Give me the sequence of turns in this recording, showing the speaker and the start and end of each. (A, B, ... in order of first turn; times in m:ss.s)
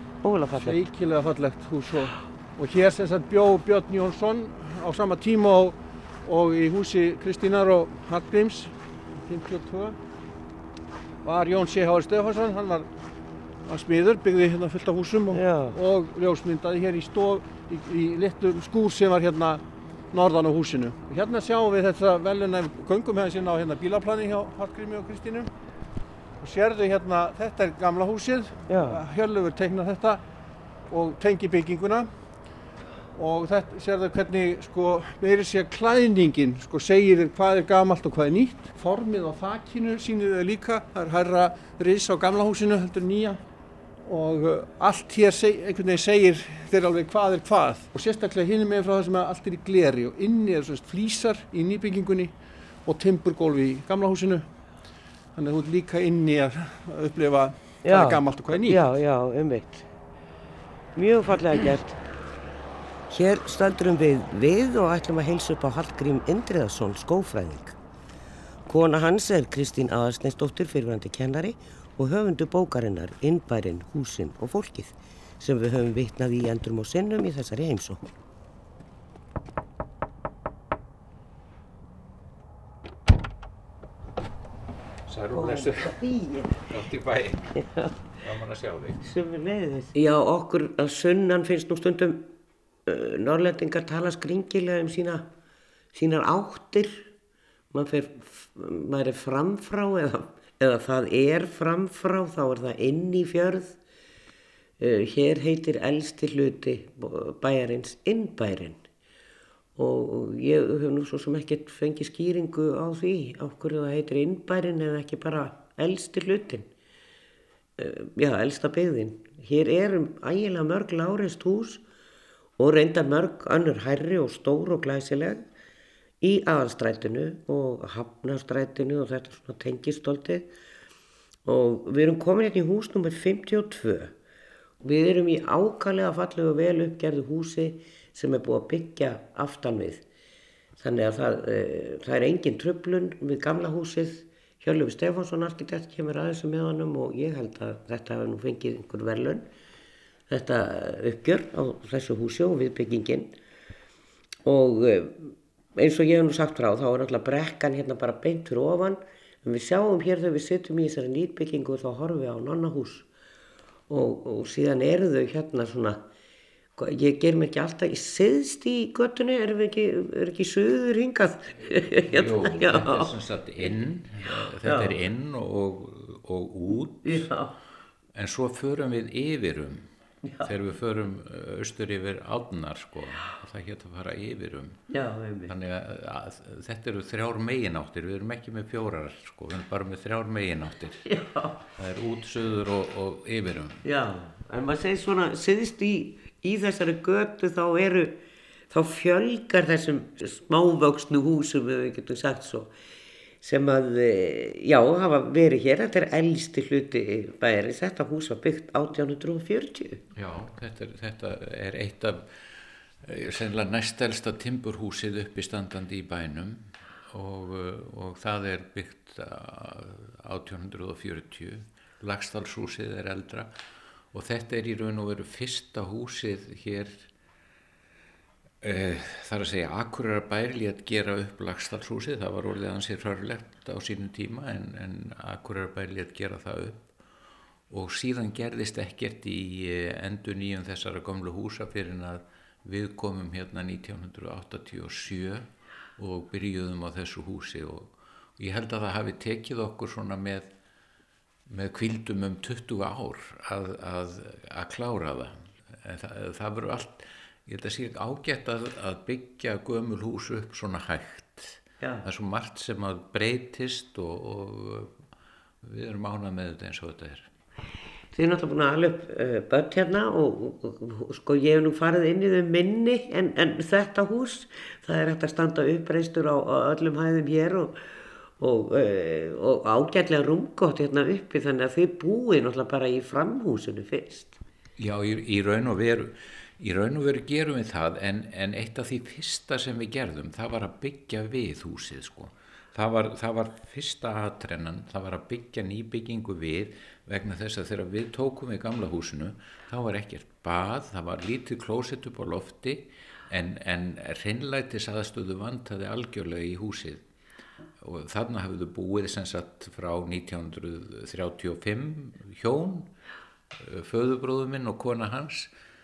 0:00.2-0:00.8 A
0:00.6-0:10.0 B
0:11.2-0:12.9 B
0:13.6-0:19.6 B
0:15.3-0:15.8 A
0:20.1-0:25.5 B
0:26.4-0:30.2 B
0:28.7-0:29.0 A
0:30.9-0:32.1 B
0:33.1-0:43.4 B
0:44.0-0:52.3 B
0:52.8-0:54.4 B
0:55.3-0:58.8 B
0:57.8-0:59.9 A
1:00.9-1:02.0 A
1:03.1-1:07.8 A
1:08.7-1:18.0 A
1:25.0-1:26.0 C
1:25.3-1:26.6 A
1:26.6-1:27.6 C
1:27.5-1:27.9 A
1:28.2-1:29.1 C
1:29.0-1:32.3 A
1:32.8-1:35.2 A
1:35.9-1:37.1 A
1:37.7-1:43.8 A
1:44.8-1:48.8 A
1:49.8-1:56.7 A
1:57.8-2:01.8 A
2:02.6-2:05.4 A
2:06.2-2:10.5 A
2:11.4-2:14.1 A
2:14.8-2:20.0 A
2:20.8-2:29.4 A
2:30.3-2:33.3 A
2:34.4-2:43.1 A
2:43.9-2:46.0 A
2:46.8-2:53.1 A
2:52.0-2:57.3 C
2:54.6-2:55.0 A
2:57.0-2:57.6 A
2:58.1-2:59.9 C
3:00.2-3:00.5 A
3:00.4-3:04.8 C
3:04.9-3:05.5 A
3:05.5-3:13.8 C
3:11.0-3:11.6 A
3:13.8-3:22.7 A
3:23.4-3:30.0 A
3:30.1-3:43.5 C
3:44.1-3:47.1 C
3:48.6-3:56.9 C
3:57.7-4:10.5 C
4:11.5-4:25.0 C
4:25.6-4:27.3 C
4:28.1-4:44.4 A
4:44.8-5:07.0 C
5:07.8-5:12.9 C
5:13.6-5:15.5 C